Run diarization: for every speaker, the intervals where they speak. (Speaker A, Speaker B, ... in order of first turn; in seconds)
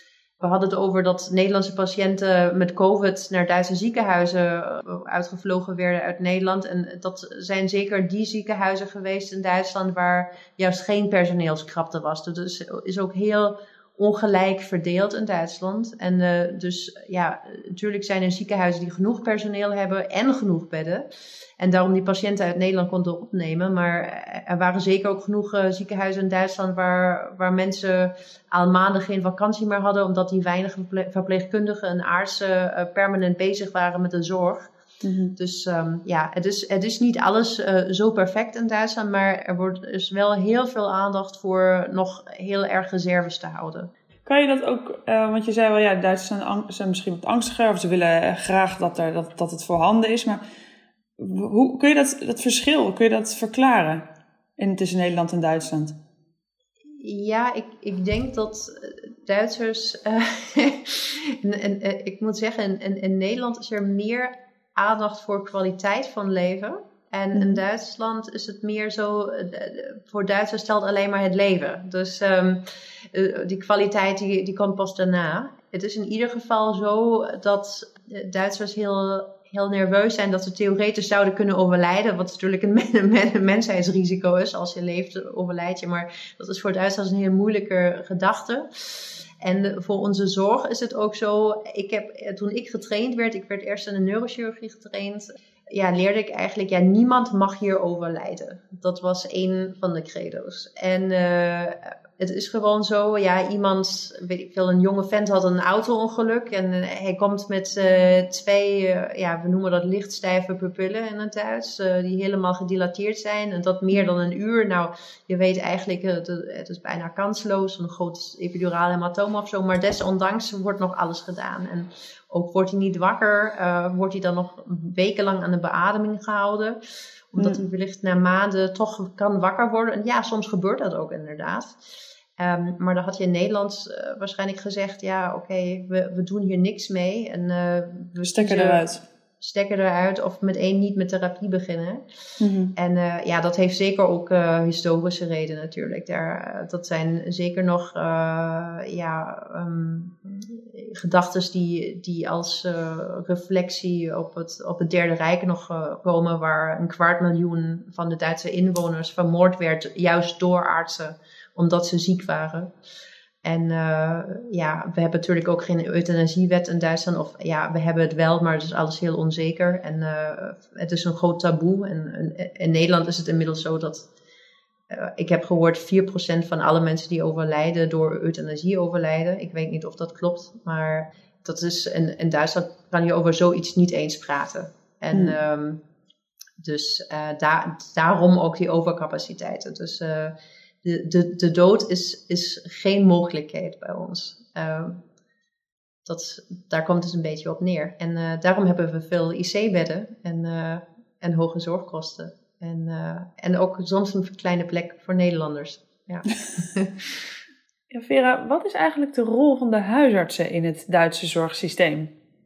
Speaker A: 0.4-21.1, 21.6-34.7, 35.4-43.9, 57.0-126.8, 127.3-131.8, 132.4-138.8, 139.4-142.0, 142.8-162.7, 163.4-174.1, 174.9-185.8, 186.6-195.0, 196.1-206.9
Speaker B: 35.0-35.4, 44.3-50.4, 51.2-54.1, 54.6-56.0, 67.3-67.6, 138.2-139.0, 142.4-142.7, 185.1-185.4, 207.9-212.1